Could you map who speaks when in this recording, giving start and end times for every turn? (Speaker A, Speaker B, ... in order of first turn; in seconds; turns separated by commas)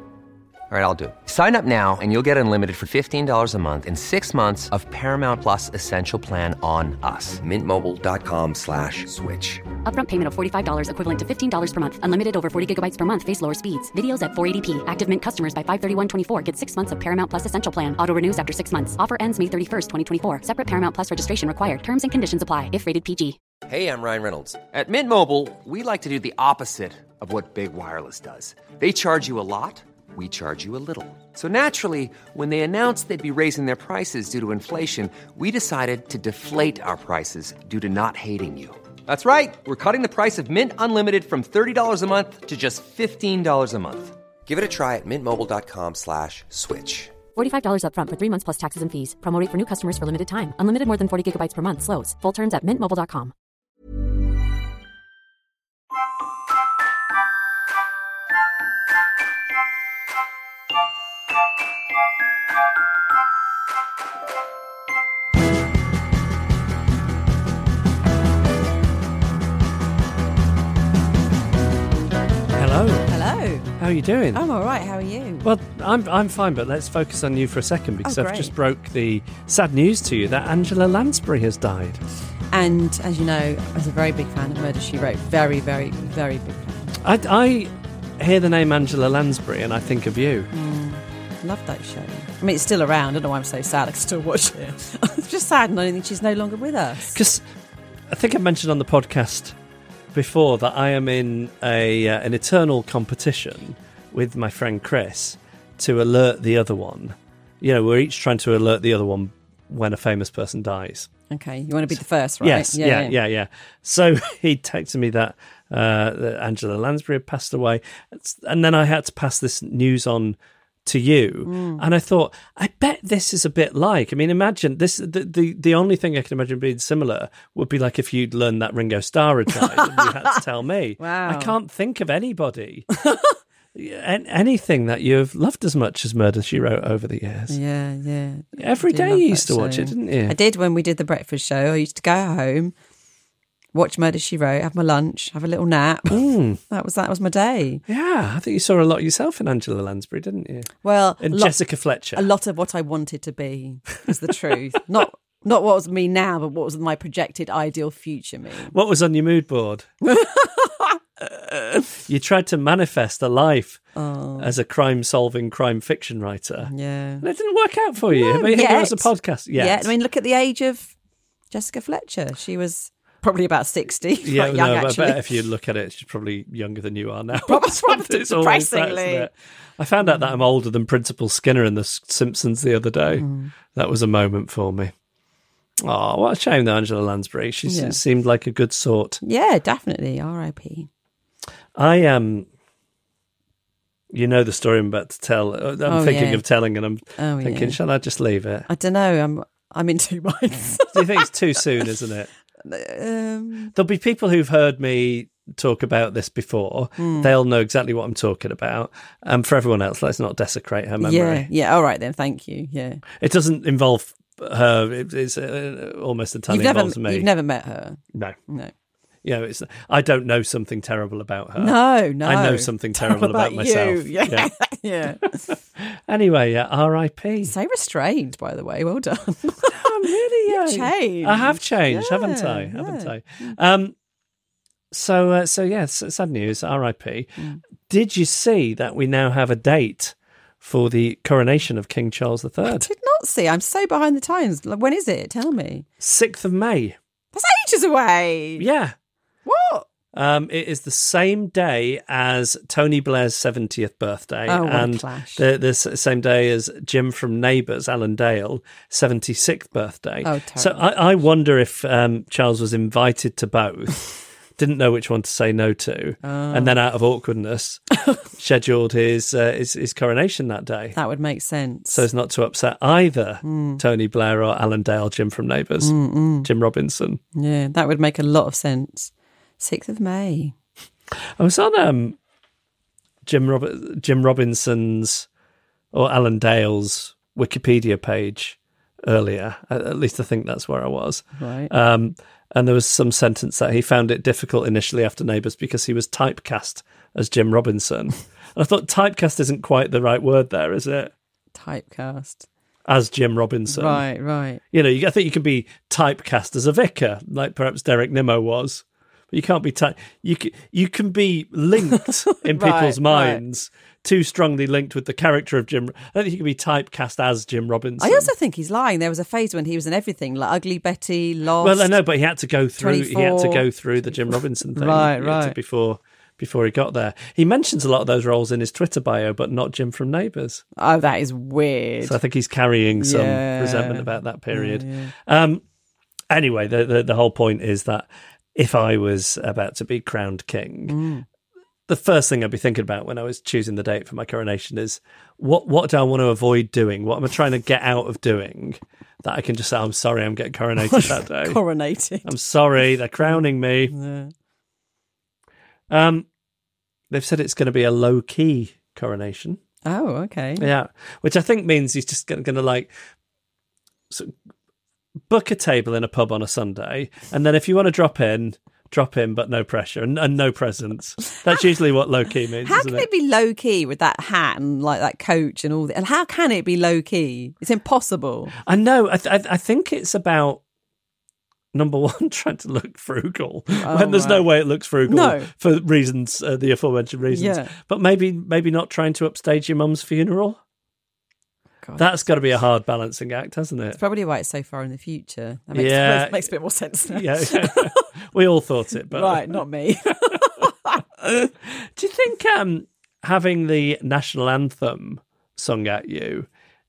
Speaker A: 0.7-9.6, Speaker B: 9.8-23.4, Speaker A: 23.7-47.1, Speaker B: 47.4-53.3, Speaker C: 72.5-73.1, Speaker D: 73.1-73.7, Speaker C: 73.8-74.4, Speaker D: 74.3-75.5, Speaker C: 75.4-82.0, Speaker D: 78.0-78.5, Speaker D: 82.5-86.9, Speaker C: 87.0-90.5, Speaker D: 90.5-97.2, Speaker C: 97.1-97.4, Speaker C: 98.1-99.5, Speaker C: 100.1-111.1, Speaker D: 111.3-113.2, Speaker C: 111.9-132.9, Speaker D: 121.4-121.8, Speaker D: 129.6-130.2, Speaker D: 131.0-131.6, Speaker C: 133.8-137.6, Speaker D: 137.5-142.7, Speaker C: 138.6-140.3, Speaker D: 143.7-147.8, Speaker C: 146.1-146.6, Speaker C: 147.9-152.2, Speaker D: 150.8-151.6, Speaker D: 152.1-158.7, Speaker C: 158.7-159.9, Speaker D: 160.0-161.0, Speaker C: 161.9-163.8, Speaker D: 163.9-164.5, Speaker C: 164.4-169.9, Speaker D: 166.6-167.2, Speaker D: 168.1-170.9, Speaker D: 171.5-175.3, Speaker C: 174.2-184.9, Speaker D: 177.3-179.3, Speaker D: 180.0-180.4, Speaker D: 183.2-183.5, Speaker C: 185.8-189.2, Speaker D: 187.7-188.0, Speaker D: 189.2-190.9, Speaker C: 191.8-192.5, Speaker C: 194.1-198.7, Speaker D: 195.8-196.4, Speaker D: 197.2-197.8, Speaker D: 198.7-201.9, Speaker C: 200.9-202.3, Speaker D: 202.6-203.7, Speaker C: 203.8-211.5, Speaker D: 207.0-207.3, Speaker D: 211.0-213.0, Speaker C: 213.2-217.3, Speaker D: 216.5-218.7, Speaker C: 219.2-224.5, Speaker D: 221.6-225.4, Speaker C: 225.5-227.6, Speaker D: 227.4-233.6, Speaker C: 229.7-233.9, Speaker C: 234.9-242.9, Speaker D: 242.6-245.8, Speaker C: 246.0-247.0, Speaker D: 247.3-248.7, Speaker C: 248.6-248.9, Speaker D: 249.5-249.8, Speaker C: 250.1-271.0, Speaker D: 254.5-255.4, Speaker D: 260.2-260.9, Speaker D: 266.2-266.8, Speaker D: 270.9-272.1, Speaker C: 271.9-277.2, Speaker D: 273.4-273.8, Speaker D: 275.8-276.5, Speaker D: 277.4-280.5, Speaker C: 281.4-282.2, Speaker C: 283.2-285.3, Speaker C: 285.9-301.1, Speaker D: 291.4-291.7, Speaker D: 301.6-302.5, Speaker C: 302.9-304.0, Speaker D: 303.7-304.6, Speaker C: 304.7-318.3, Speaker D: 312.4-313.4, Speaker D: 318.0-322.0, Speaker C: 321.6-330.6, Speaker D: 322.8-323.7, Speaker D: 324.2-325.6, Speaker D: 330.8-332.2, Speaker C: 332.0-335.6, Speaker D: 333.0-335.1, Speaker C: 336.3-341.0, Speaker D: 340.9-341.2, Speaker C: 341.9-351.6, Speaker D: 350.8-352.3, Speaker C: 352.2-353.9, Speaker D: 353.2-354.3, Speaker C: 355.9-356.3, Speaker C: 357.1-359.6, Speaker D: 359.9-360.7, Speaker C: 360.6-362.9, Speaker C: 365.3-373.1, Speaker D: 372.6-378.5, Speaker C: 378.6-380.6, Speaker C: 381.7-390.6, Speaker D: 383.8-384.5, Speaker D: 385.0-385.5, Speaker D: 387.3-387.8, Speaker D: 391.8-392.3, Speaker C: 392.0-394.0, Speaker D: 394.0-398.1, Speaker C: 395.7-396.5, Speaker C: 397.1-399.6, Speaker D: 399.1-401.0, Speaker C: 401.2-406.5